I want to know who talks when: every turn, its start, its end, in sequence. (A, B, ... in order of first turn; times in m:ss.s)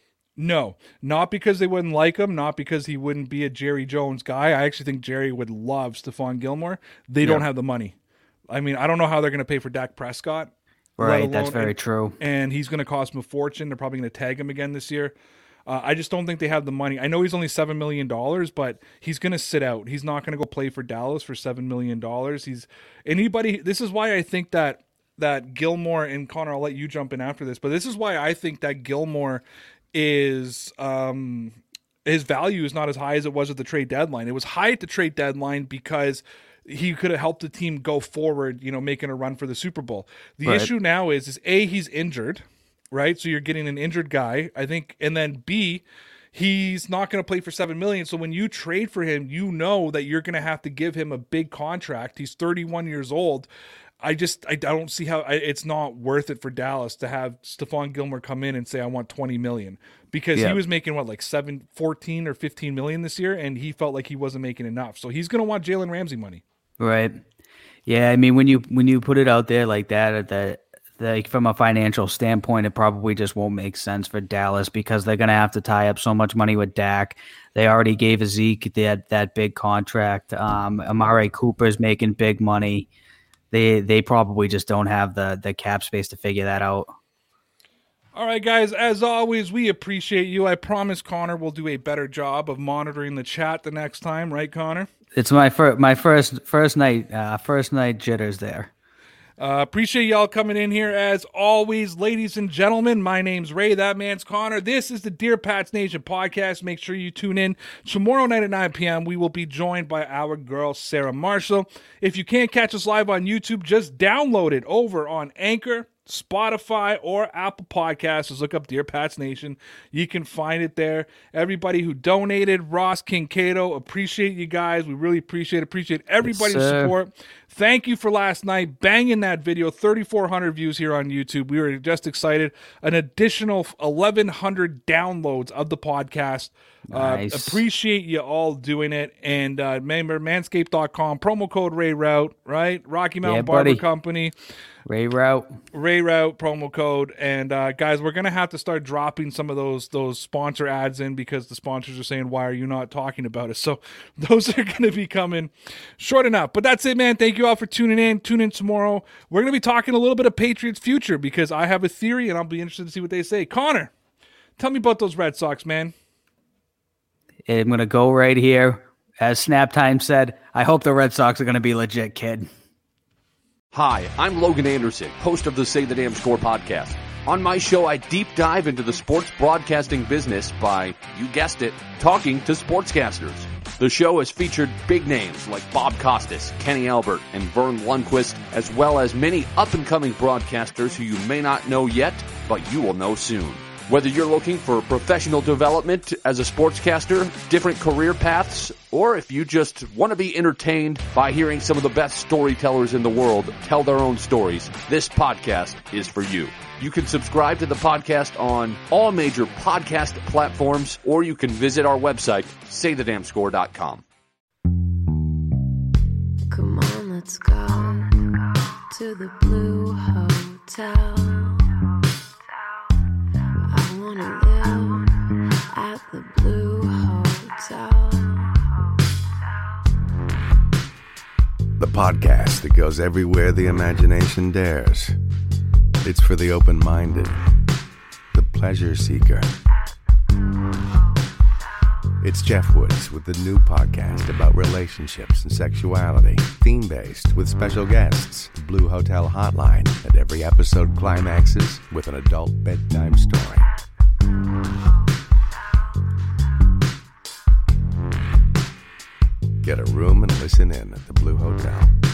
0:00.4-0:07.9 A
0:08.5-0:15.1 A
0:11.0-0:12.2 B
0:15.7-0:29.4 A
0:29.9-0:45.8 A
0:40.4-0:40.7 B
0:46.3-0:53.5 A
0:54.0-1:06.4 A
1:00.3-1:00.6 B
1:06.8-1:07.2 B
1:07.8-1:22.9 B
1:23.5-1:26.9 B
1:28.1-1:34.9 A
1:35.2-1:38.7 B
1:39.4-2:24.3 A
2:06.2-2:06.9 B
2:16.9-2:17.6 B
2:23.2-2:23.8 B
2:24.9-2:25.6 B
2:25.7-2:43.9 A
2:44.6-2:45.9 A
2:47.5-2:52.5 B
2:53.7-3:34.0 C
3:36.5-3:41.8 D
3:43.7-3:45.1 D
3:45.7-3:48.6 D
3:51.8-3:55.2 E
3:56.0-3:57.4 E
3:58.3-3:59.5 E
4:02.2-4:13.7 E
4:19.6-4:21.9 E